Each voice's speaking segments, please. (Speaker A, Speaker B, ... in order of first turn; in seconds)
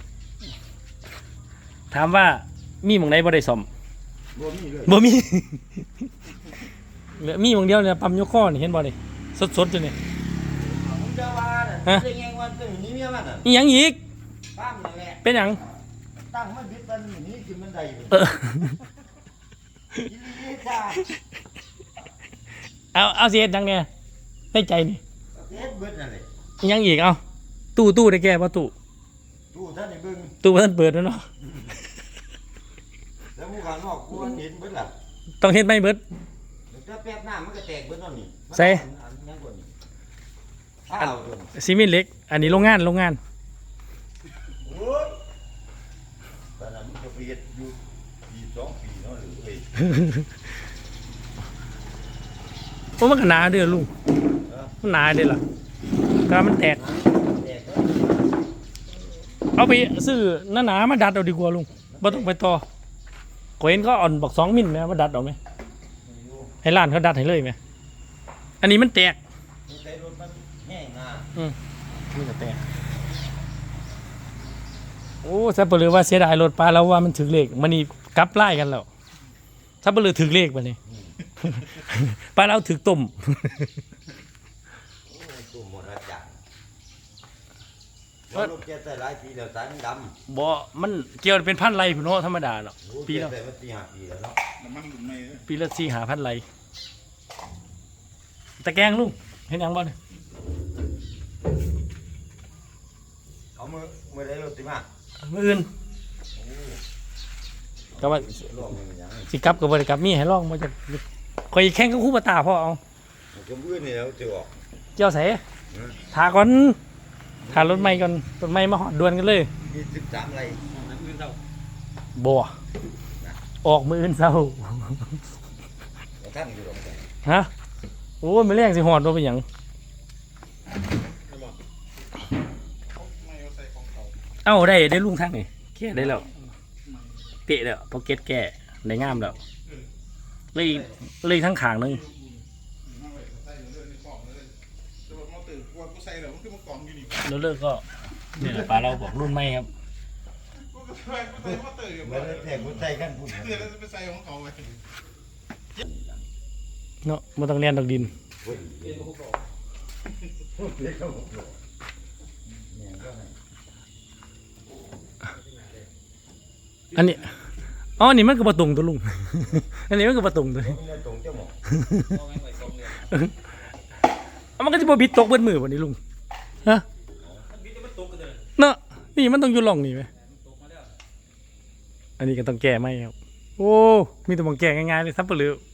Speaker A: 1.9-3.7, 4.9-5.9, 7.2-10.0, 13.4-14.0, 15.2-15.6, 18.1-18.8, 22.9-23.9, 24.5-25.0, 26.6-27.2, 27.8-28.7, 30.4-31.2, 35.4-36.0, 38.5-38.8, 41.0-43.2, 49.8-50.3, 53.0-53.9, 54.8-55.4, 56.3-56.8, 59.6-62.6, 63.6-65.4, 66.6-67.6, 68.6-69.2, 72.1-72.7, 75.2-78.9, 79.8-80.8, 81.4-83.7, 90.3-93.3, 95.3-96.4, 98.6-100.0, 105.2-105.7, 108.0-108.5, 109.3-112.8, 115.0-115.4, 116.1-116.8, 117.5-119.5, 122.2-122.5, 123.6-125.2, 128.2-129.4, 134.4-136.3, 137.5-139.4, 140.5-142.1, 147.2-147.8, 148.4-149.7, 157.0-158.1, 166.9-167.3, 168.0-170.8, 171.7-173.4, 174.6-176.0, 178.6-180.1, 182.2-185.6
Speaker B: 4.3-5.0, 10.6-13.5, 14.5-15.5, 16.3-18.4, 20.0-21.1, 25.3-26.3, 29.5-30.4, 31.5-31.8, 33.4-34.9, 36.7-39.7, 40.9-41.5, 44.6-45.1, 46.6-49.7, 54.5-54.8, 56.7-58.3, 61.8-62.3, 66.0-66.5, 69.7-71.3, 80.9-81.2, 85.1-86.4, 88.3-90.2, 92.8-94.4, 103.6-104.9, 106.3-106.8, 107.9-109.3, 113.3-114.5, 115.7-116.0, 117.4-118.0, 119.6-121.1, 126.2-127.0, 140.6-141.0, 148.4-149.1, 151.2-153.9, 155.8-156.2, 158.4-159.2, 160.6-161.6, 162.6-163.3, 170.6-171.6, 177.2-177.6
Speaker C: 94.6-95.3, 133.0-134.1, 142.9-144.5, 145.1-147.1, 150.8-151.3, 153.9-154.7, 159.1-159.3, 172.3-172.9, 177.7-178.4, 180.4-180.9